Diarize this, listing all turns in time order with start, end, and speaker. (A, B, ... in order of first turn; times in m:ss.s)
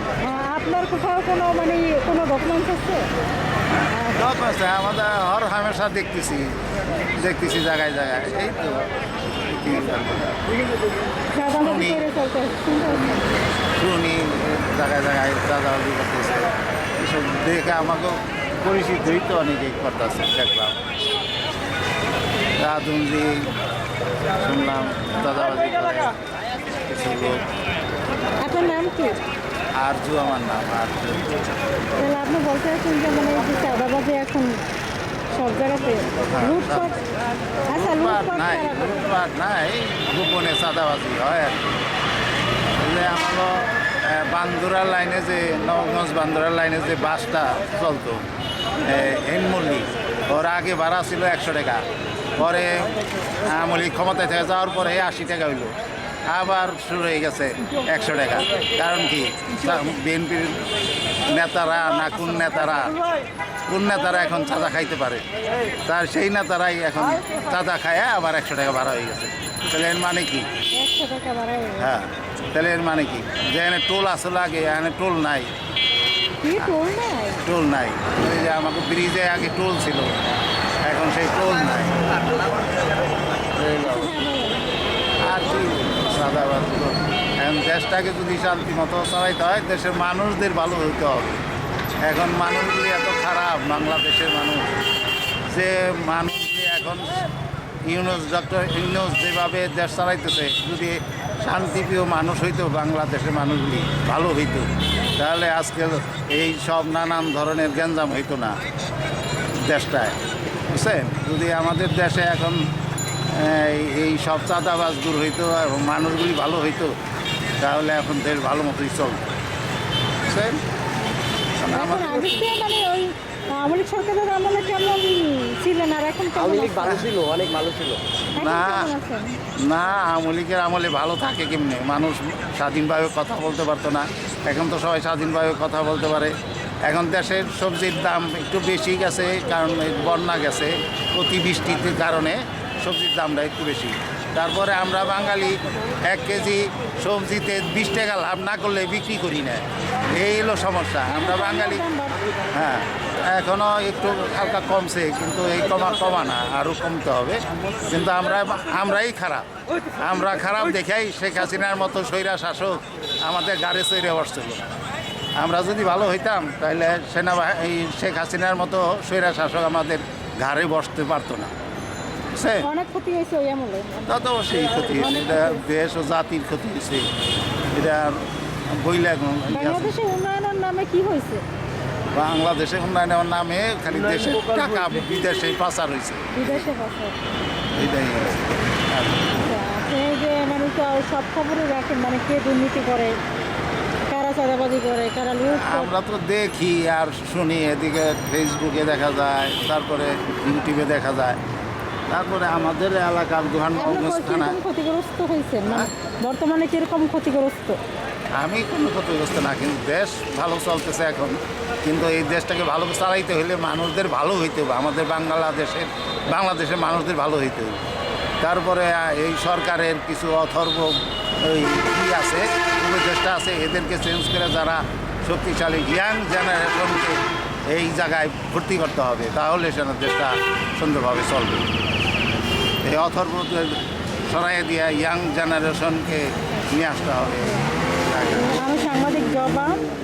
0:00.2-0:03.1 A
0:03.7-0:06.6 B
0:03.9-0:04.2 A
0:07.1-0:08.9 B
0:09.4-0:10.4 B
0:11.3-0:13.2 A
0:11.6-0:12.1 B
0:12.8-0:20.8 B
0:22.6-0:23.4 B
0:24.4-0:26.2 B
0:26.9-0:27.4 B
0:28.4-0:29.2 A
0:29.8-0:31.3 B
0:32.0-0:34.6 A
0:35.3-0:37.0 A
0:36.3-0:36.9 B
0:37.7-0:39.0 A
0:37.7-0:41.6 B
0:42.8-0:48.3 B
0:48.8-0:51.8 B
0:52.4-0:55.8 B
0:56.3-1:00.7 B
1:01.2-1:03.0 B
1:03.7-1:05.3 B
1:05.8-1:10.5 B
1:10.7-1:11.9 A
1:11.8-1:15.5 B
1:16.4-1:17.4 A
1:17.4-1:20.2 B
1:20.9-1:22.0 B
1:23.6-1:24.1 C
1:23.8-1:24.7 A
1:25.2-1:31.4 B
1:32.0-1:34.8 B
1:35.5-1:37.2 B
1:37.8-1:48.6 B
1:49.6-1:52.6 B
1:53.3-1:56.9 B
1:57.6-1:59.3 B
2:00.3-2:00.6 B
2:01.6-2:02.4 B
2:01.7-2:07.1 A
2:06.4-2:08.0 C
2:08.4-2:09.4 A
2:08.4-2:08.9 B
2:09.6-2:16.3 B
2:16.9-2:31.9 B
2:31.1-2:32.3 A
2:32.5-2:39.5 B
2:40.0-2:44.7 B
2:45.4-2:51.5 B
2:52.4-2:52.7 B
2:52.6-2:55.6 A
2:54.1-2:57.1 B
2:57.7-3:00.0 B
2:59.5-3:01.4 A
3:02.1-3:06.7 B
3:04.1-3:05.0 C
3:06.3-3:07.2 A
3:07.8-3:09.4 B
3:09.4-3:13.2 A
3:14.1-3:15.9 A
3:15.5-3:21.4 B
3:22.1-3:24.6 B
3:23.8-3:27.8 A
3:28.4-3:37.8 B
3:38.4-3:51.7 B
3:52.8-3:58.6 B
3:58.5-3:59.8 A